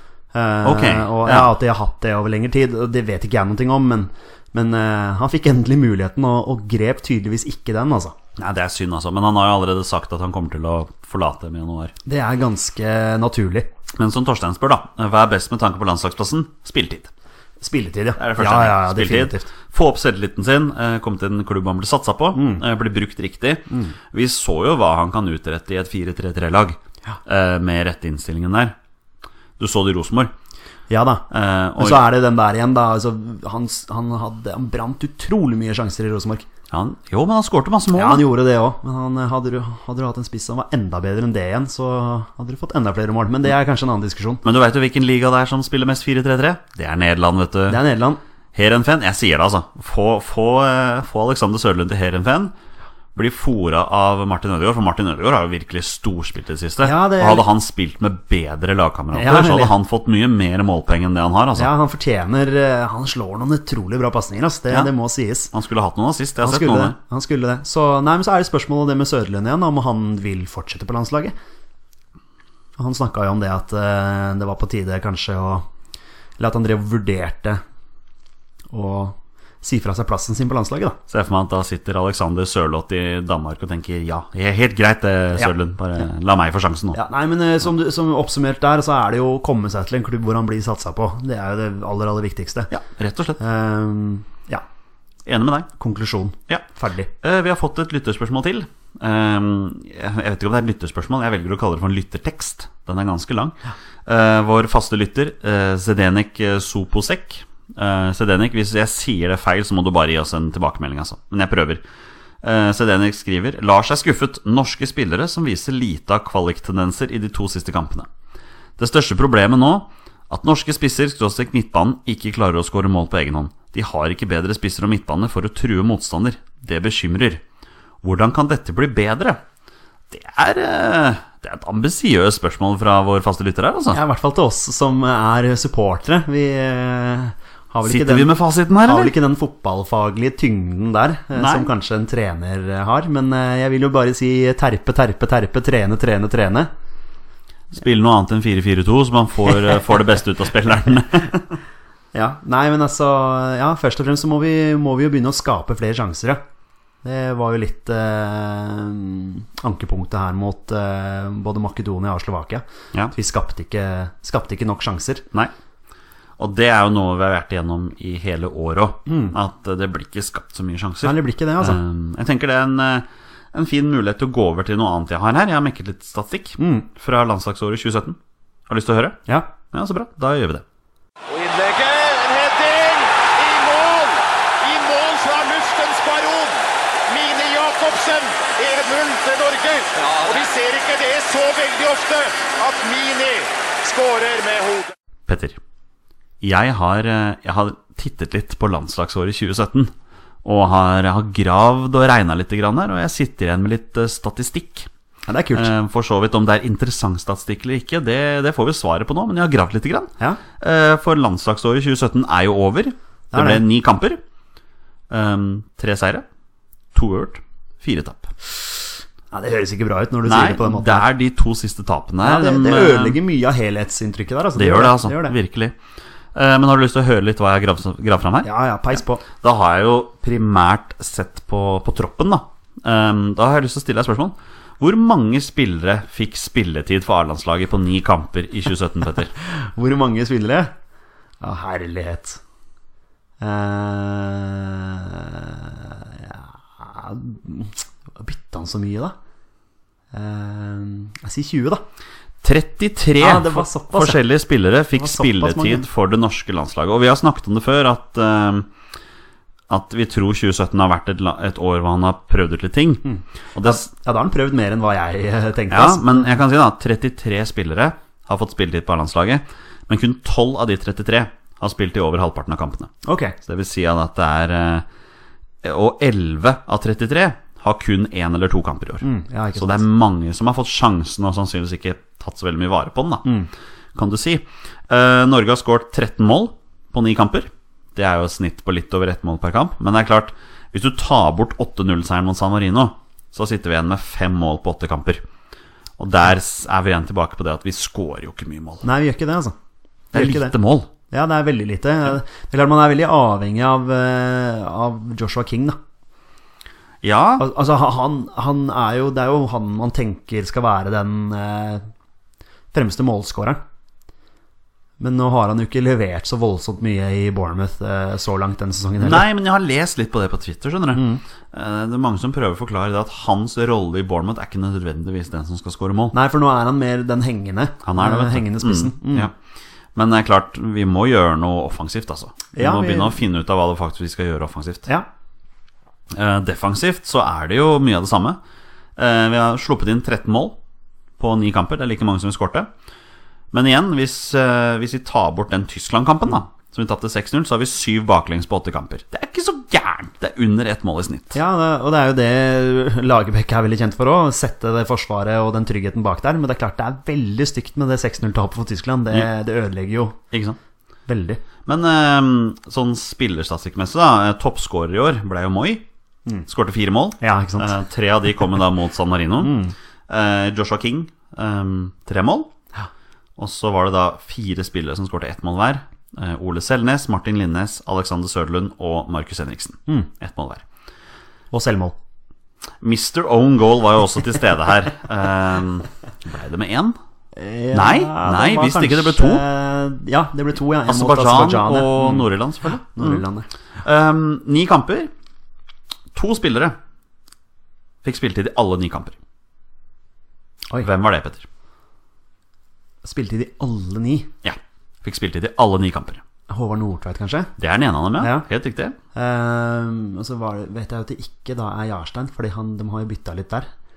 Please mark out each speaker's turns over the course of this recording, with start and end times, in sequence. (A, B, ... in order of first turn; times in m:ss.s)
0:00.3-0:08.1 A
0:00.6-0:01.5 B
0:08.4-0:11.9 B
0:12.0-0:13.7 A
0:13.9-0:17.1 B
0:17.6-0:19.5 A
0:18.2-0:28.8 B
0:22.3-0:22.6 A
0:29.6-0:30.3 B
0:30.9-0:36.4 A
0:31.3-0:32.0 B
0:36.7-0:38.3 B
0:37.9-0:44.4 A
0:44.4-0:47.8 B
0:47.7-0:48.2 A
0:48.5-0:52.5 B
0:53.1-1:01.7 B
0:56.8-0:57.4 A
0:59.1-0:59.7 A
1:01.6-1:05.5 A
1:05.5-1:07.0 B
1:06.4-1:11.3 A
1:12.8-1:15.6 A
1:16.4-1:17.6 A
1:18.7-1:21.0 A
1:21.1-1:27.0 B
1:26.9-1:32.7 A
1:32.7-1:33.4 B
1:33.4-1:34.6 A
1:35.2-1:35.7 B
1:35.8-1:37.1 A
1:37.2-1:51.8 B
1:52.4-1:58.1 B
1:58.8-2:07.4 B
2:08.0-2:09.4 B
2:10.1-2:14.0 B
2:13.9-2:26.7 A
2:17.8-2:19.1 B
2:21.3-2:21.7 B
2:27.7-2:31.6 B
2:32.1-2:36.4 A
2:37.0-2:45.2 A
2:46.4-3:00.6 B
2:49.1-2:49.3 A
2:51.0-2:51.8 A
2:56.6-2:56.9 A
3:01.3-3:14.9 C
3:15.3-3:15.6 B
3:16.4-3:19.9 B
3:20.4-3:24.9 B
3:25.3-3:25.7 A
3:25.5-3:34.2 B
3:33.3-3:33.6 A
3:35.1-3:36.2 B
3:36.9-3:38.3 B
3:39.3-3:41.1 A
3:40.2-3:43.2 B
3:42.2-3:45.3 A
3:44.5-3:45.8 B
3:46.3-3:48.5 B
3:48.4-3:49.2 A
3:49.4-3:59.3 B
3:59.4-4:00.7 A
4:01.4-4:02.4 A
4:03.4-4:09.1 A
4:10.1-4:11.8 A
4:12.4-4:18.7 B
4:13.2-4:14.2 A
4:14.9-4:15.8 A
4:19.7-4:23.9 B
4:23.0-4:26.3 A
4:25.7-4:32.9 B
4:33.0-4:33.4 A
4:33.4-4:34.8 B
4:35.6-4:43.2 B
4:39.0-4:39.8 A
4:43.9-4:55.2 B
4:56.0-4:58.8 B
4:58.8-4:59.5 A
5:00.1-5:00.5 A
5:00.1-5:00.9 B
5:01.1-5:05.8 A
5:07.0-5:07.5 B
5:07.4-5:11.8 A
5:12.7-5:13.6 A
5:15.0-5:19.2 A
5:19.0-5:26.1 B
5:20.9-5:21.2 A
5:26.1-5:29.3 A
5:27.8-5:29.3 B
5:29.9-5:34.9 B
5:32.5-5:33.2 A
5:36.1-5:38.4 B
5:39.0-5:40.6 B
5:41.2-5:42.7 B
5:43.5-5:51.4 B
5:51.3-6:00.2 A
6:00.3-6:00.6 B
6:01.1-6:01.4 A
6:01.6-6:05.8 B
6:06.5-6:09.6 B
6:07.2-6:07.7 A
6:09.4-6:09.7 A
6:10.1-6:12.5 B
6:13.4-6:20.6 B
6:21.5-6:22.0 A
6:22.8-6:27.0 B
6:27.4-6:32.3 A
6:27.7-6:29.4 B
6:30.9-6:33.2 B
6:32.9-6:33.5 A
6:33.8-6:35.1 B
6:36.1-6:36.8 B
6:38.0-6:39.2 B
6:40.8-6:41.4 B
6:43.0-6:44.3 A
6:44.4-6:46.2 B
6:46.5-6:47.5 A
6:47.6-6:49.0 B
6:48.2-6:48.5 A
6:49.1-6:53.7 A